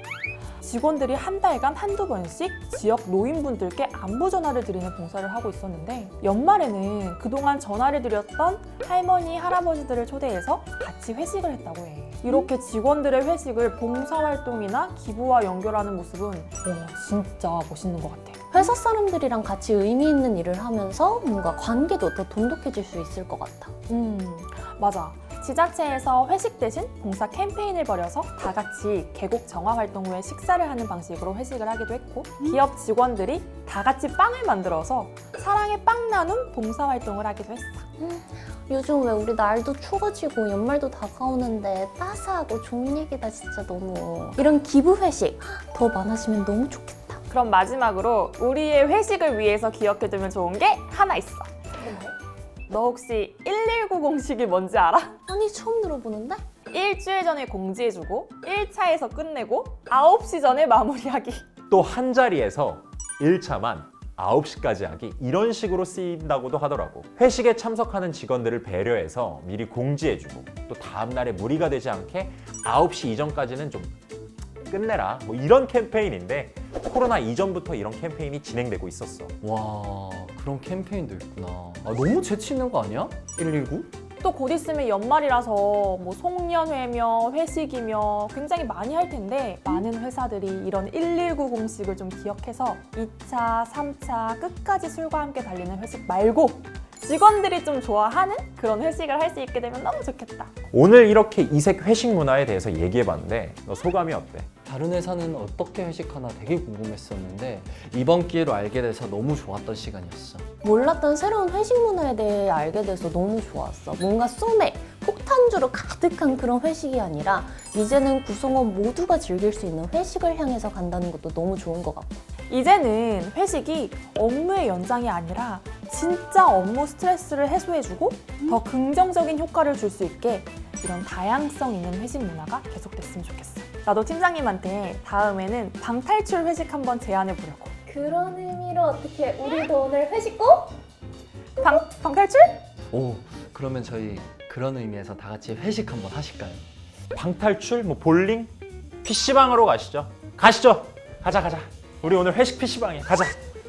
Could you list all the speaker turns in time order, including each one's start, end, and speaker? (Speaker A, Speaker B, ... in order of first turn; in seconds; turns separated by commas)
Speaker A: 0.6-18.4, Speaker B: 18.5-23.7, Speaker A: 23.9-37.9, Speaker B: 38.0-47.2, Speaker A: 47.3-51.5, Speaker B: 51.8-52.1, Speaker A: 52.7-55.2, Speaker B: 55.3-56.4, Speaker A: 56.7-61.5, Speaker C: 61.7-73.9, Speaker C: 74.7-79.3, Speaker D: 79.4-83.9, Speaker A: 84.2-100.5, Speaker C: 100.7-104.5, Speaker D: 104.7-110.5, Speaker B: 110.6-122.2, Speaker A: 122.5-137.7, Speaker B: 137.9-140.8, Speaker A: 141.6-142.6, Speaker D: 142.9-146.7, Speaker C: 147.1-148.5, Speaker C: 149.0-153.3